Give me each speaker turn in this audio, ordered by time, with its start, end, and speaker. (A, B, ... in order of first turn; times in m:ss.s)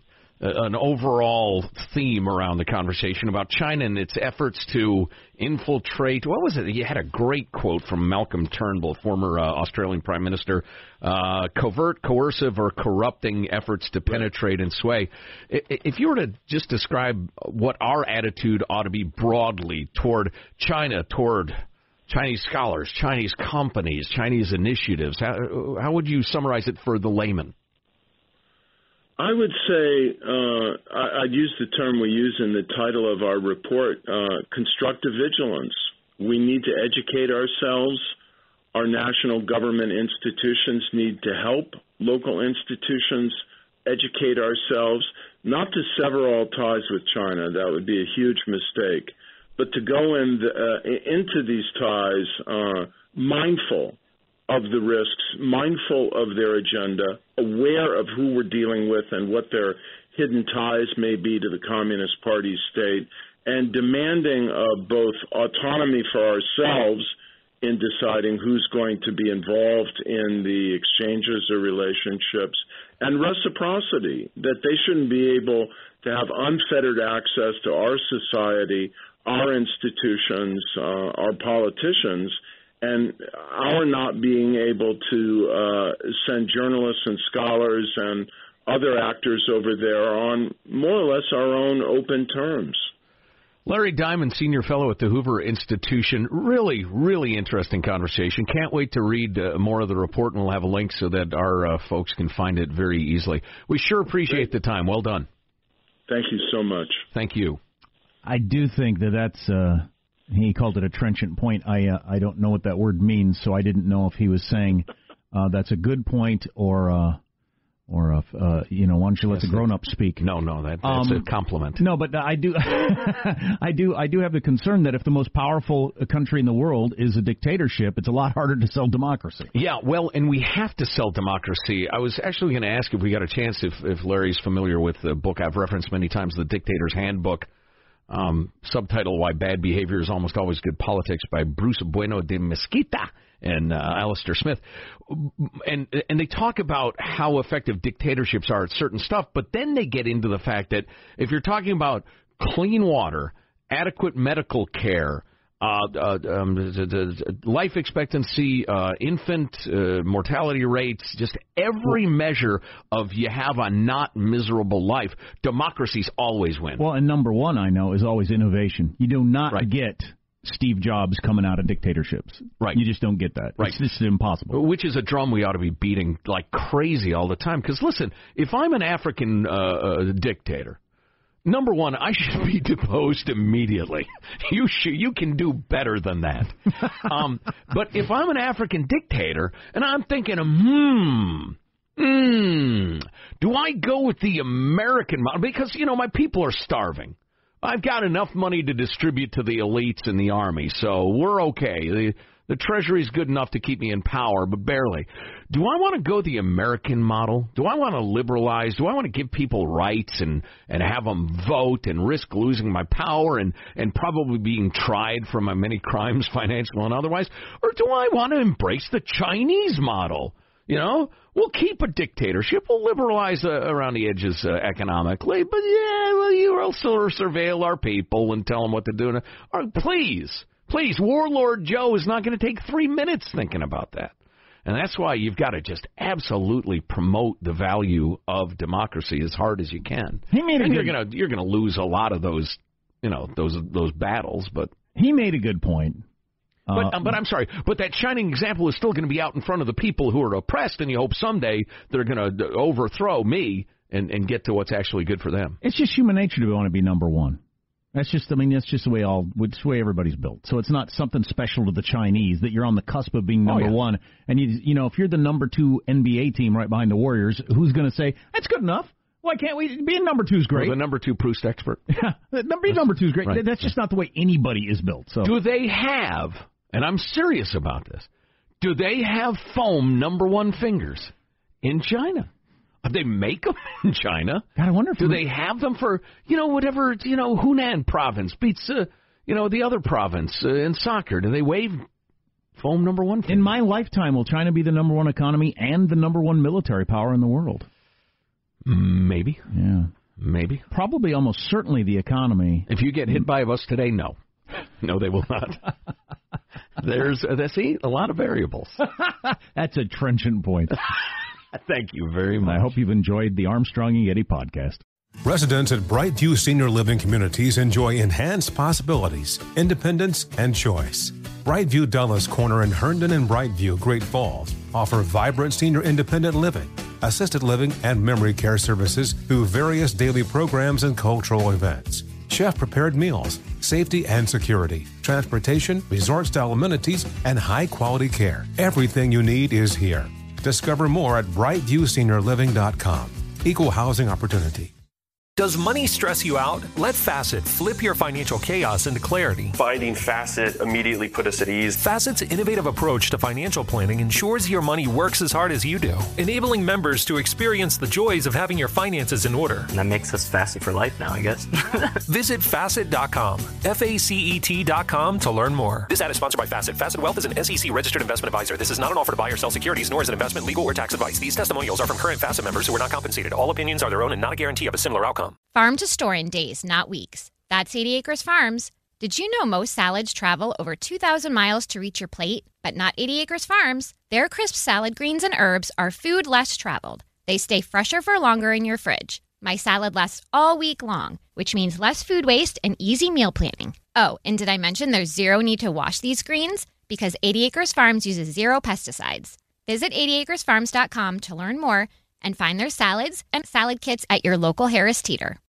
0:00.4-0:27.5 A
0:29.2-0:38.1 B
0:38.7-0:54.0 B
0:54.5-1:32.9 B
1:33.6-1:45.3 A
1:46.1-1:47.0 B
1:47.1-1:47.6 A
1:48.2-1:57.2 C
1:57.9-2:00.2 C
1:59.4-1:59.6 A
2:00.2-2:01.8 A
2:00.8-2:01.2 C
2:01.8-2:09.5 C
2:09.5-2:17.5 A
2:18.1-2:46.8 A
2:46.8-2:54.6 C
2:54.5-3:00.8 A
3:01.4-3:54.1 A
3:54.6-4:04.7 A
4:00.3-4:01.0 C
4:05.0-4:06.0 C
4:06.7-4:07.1 C
4:06.7-4:15.6 A
4:15.6-4:17.4 C
4:17.9-4:30.7 C
4:23.5-4:23.7 A
4:30.6-4:31.8 A
4:31.9-4:35.3 C
4:35.2-4:38.1 A
4:38.6-4:42.3 A
4:42.8-4:44.5 A
4:44.6-4:45.2 C
4:45.0-4:51.8 A
4:52.6-4:53.5 A
4:53.3-4:57.7 C
4:58.6-4:59.5 A
4:59.5-4:59.9 C
5:00.2-5:00.6 A
5:00.7-5:02.7 C
5:02.7-5:04.2 A
5:04.8-5:05.7 A
5:06.8-5:08.8 A
5:09.6-5:10.8 C
5:11.5-5:12.7 A
5:12.4-5:14.8 C
5:15.2-5:44.7 D
5:45.4-5:49.6 E
5:49.5-5:51.8 F
5:51.8-5:59.7 E
5:59.7-6:01.9 G
6:02.1-6:15.4 E
6:15.5-6:45.4 H